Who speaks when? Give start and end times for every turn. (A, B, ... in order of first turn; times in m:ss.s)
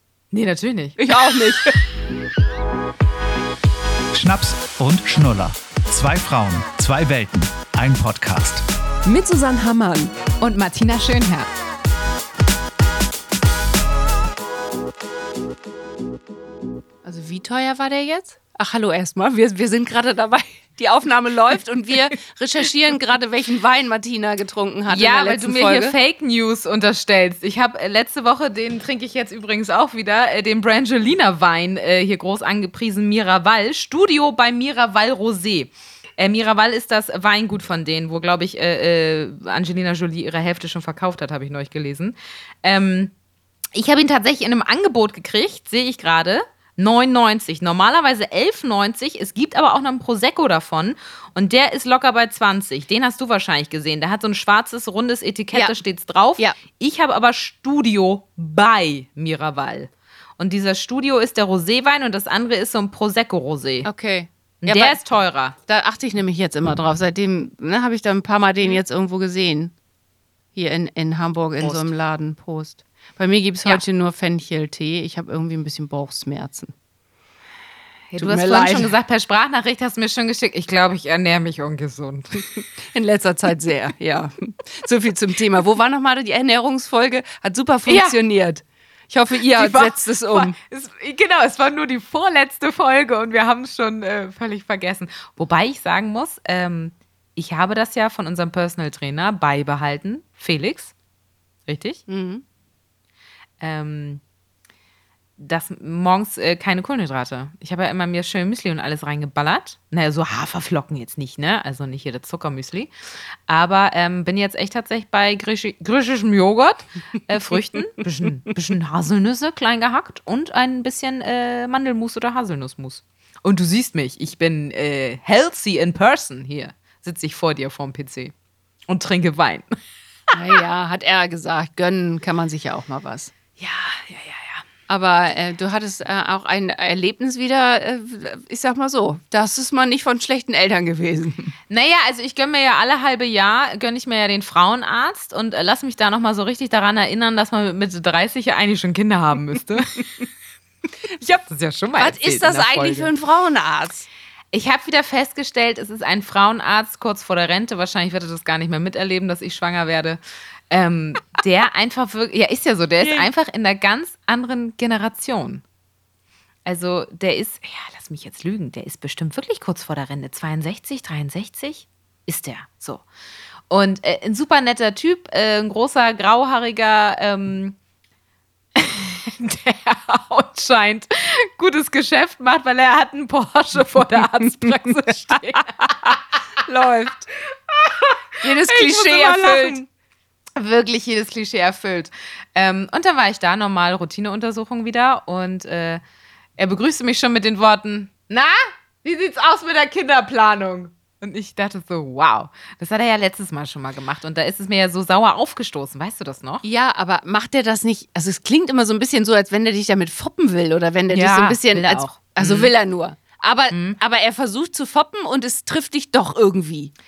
0:00.3-0:01.0 A
0:01.0-0:01.8 B
0:04.1-0:08.6 C
0:09.0-0:10.1 B
0:10.4-0:11.5 A
0:17.0-0:26.0 B
0:24.9-0:43.1 A
0:43.8-1:03.9 A
0:55.5-0:55.8 B
1:03.8-1:05.0 B
1:04.6-1:05.6 A
1:05.7-1:09.7 B
1:10.6-1:16.7 B
1:11.6-1:11.9 A
1:18.1-1:22.6 A
1:18.2-1:18.9 B
1:22.8-1:30.6 B
1:27.9-1:28.2 A
1:29.6-1:40.9 A
1:41.7-1:42.0 A
1:42.1-1:42.4 B
1:43.6-1:44.2 A
1:45.4-1:52.9 A
1:53.5-2:08.3 A
2:08.9-2:09.8 A
2:10.3-2:13.3 B
2:13.6-2:14.6 A
2:14.9-2:21.5 B
2:21.7-2:30.1 A
2:31.2-2:33.1 A
2:32.0-2:34.1 B
2:34.5-2:45.6 A
2:43.0-2:43.3 B
2:46.7-2:53.0 A
2:53.7-2:57.8 A
2:58.8-3:06.1 A
3:05.5-3:07.3 B
3:07.7-3:09.8 A
3:08.4-3:09.8 B
3:10.6-3:16.0 A
3:16.6-3:26.6 A
3:26.6-3:36.9 B
3:31.1-3:32.7 A
3:33.7-3:34.0 A